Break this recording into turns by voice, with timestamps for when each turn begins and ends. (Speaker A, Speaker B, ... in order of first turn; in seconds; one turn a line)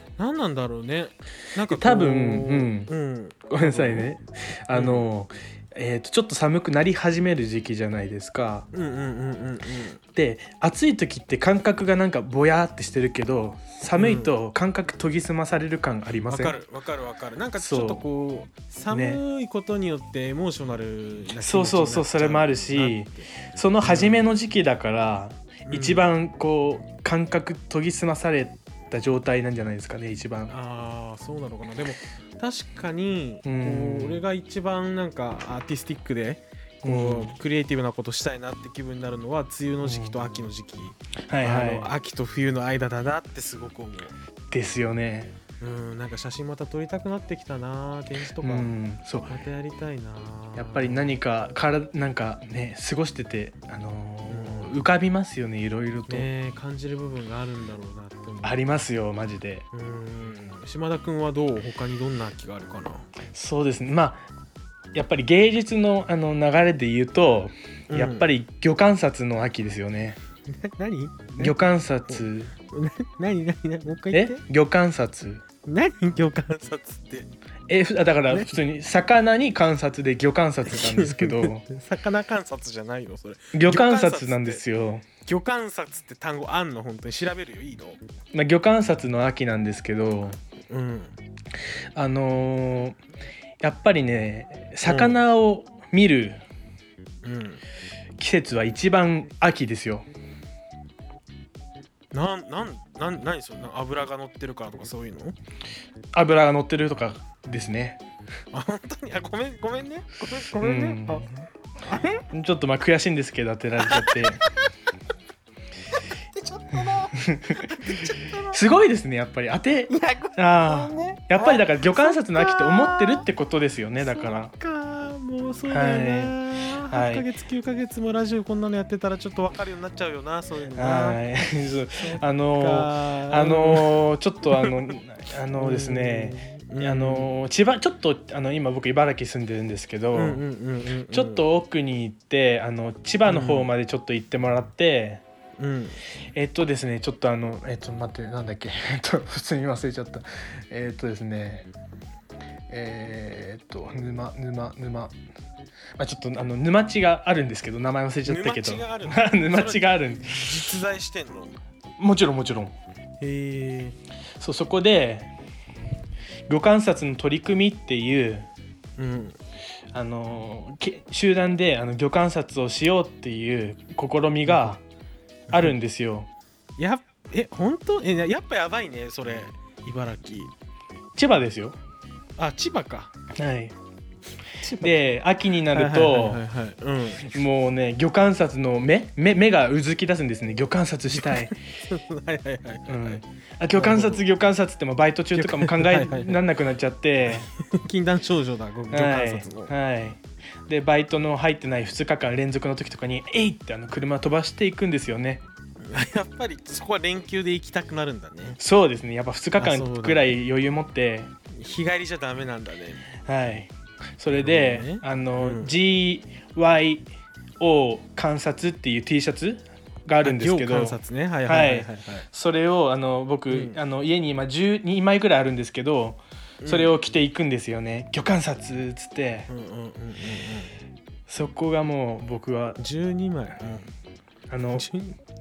Speaker A: 0.2-4.1
Speaker B: 1.7-2.9
Speaker B: 3.5-8.7
Speaker A: 4.7-5.1
Speaker A: 8.7-10.0
Speaker B: 10.1-16.6
Speaker A: 13.9-14.3
Speaker A: 16.3-23.3
Speaker B: 17.6-18.0
Speaker B: 18.9-19.2
Speaker B: 21.4-30.5
Speaker A: 23.8-24.3
Speaker A: 25.6-26.1
Speaker A: 30.5-44.1
Speaker B: 33.4-34.2
Speaker B: 36.8-37.3
Speaker B: 39.8-40.2
Speaker B: 41.3-41.9
Speaker B: 44.5-45.3
Speaker A: 45.6-48.7
Speaker B: 48.4-49.3
Speaker A: 49.3-51.1
Speaker B: 50.5-56.3
Speaker A: 54.3-54.9
Speaker A: 56.1-58.6
Speaker B: 58.4-59.6
Speaker A: 59.7-63.1
Speaker B: 63.3-64.2
Speaker B: 64.9-70.2
Speaker A: 67.9-68.3
Speaker A: 70.5-74.4
Speaker B: 71.4-72.5
Speaker B: 74.1-75.4
Speaker A: 75.7-77.3
Speaker B: 77.7-81.6
Speaker A: 78.3-78.6
Speaker A: 80.7-84.6
Speaker B: 83.5-85.0
Speaker A: 85.2-88.0
Speaker B: 88.3-90.4
Speaker A: 90.7-91.2
Speaker B: 92.0-93.0
Speaker B: 93.6-96.4
Speaker A: 94.8-95.2
Speaker A: 97.2-97.6
Speaker B: 98.2-100.0
Speaker A: 102.1-105.3
Speaker B: 106.1-108.0
Speaker A: 108.5-112.2
Speaker B: 110.6-111.4
Speaker B: 112.3-114.4
Speaker A: 113.8-114.6
Speaker A: 116.3-118.6
Speaker B: 117.2-117.8
Speaker B: 118.5-124.5
Speaker A: 119.9-123.3
Speaker A: 124.0-131.2
Speaker B: 125.7-126.3
Speaker B: 126.9-127.2
Speaker B: 130.7-140.4
Speaker A: 132.0-134.1
Speaker A: 135.5-137.3
Speaker A: 140.1-141.5
Speaker B: 141.1-145.2
Speaker A: 143.2-143.7
Speaker A: 145.6-146.0
Speaker B: 146.3-151.7
Speaker B: 152.7-155.2
Speaker B: 156.0-160.8
Speaker A: 158.2-161.6
Speaker B: 162.0-162.7
Speaker A: 163.2-164.0
Speaker B: 164.4-165.3
Speaker B: 166.5-168.5
Speaker A: 169.0-169.4
Speaker B: 169.9-174.8
Speaker A: 174.4-174.8
Speaker B: 175.5-176.3
Speaker A: 176.8-180.5
Speaker B: 181.1-181.8
Speaker A: 182.4-183.1
Speaker B: 183.3-183.7
Speaker A: 184.6-185.0
Speaker B: 184.8-186.4
Speaker A: 185.6-187.3
Speaker B: 187.2-191.5
Speaker A: 191.1-193.2
Speaker B: 192.9-197.5
Speaker A: 193.7-194.2
Speaker A: 195.3-196.4
Speaker A: 197.3-199.7
Speaker B: 198.9-205.4
Speaker A: 205.8-208.6
Speaker B: 208.6-211.3
Speaker A: 209.6-210.3
Speaker A: 211.6-213.1
Speaker B: 213.2-229.5
Speaker A: 214.3-215.7
Speaker A: 220.2-222.2
Speaker A: 223.5-223.8
Speaker A: 226.6-226.9
Speaker A: 229.5-230.8
Speaker B: 231.3-232.8
Speaker A: 232.8-233.9
Speaker B: 234.5-234.9
Speaker A: 234.7-235.2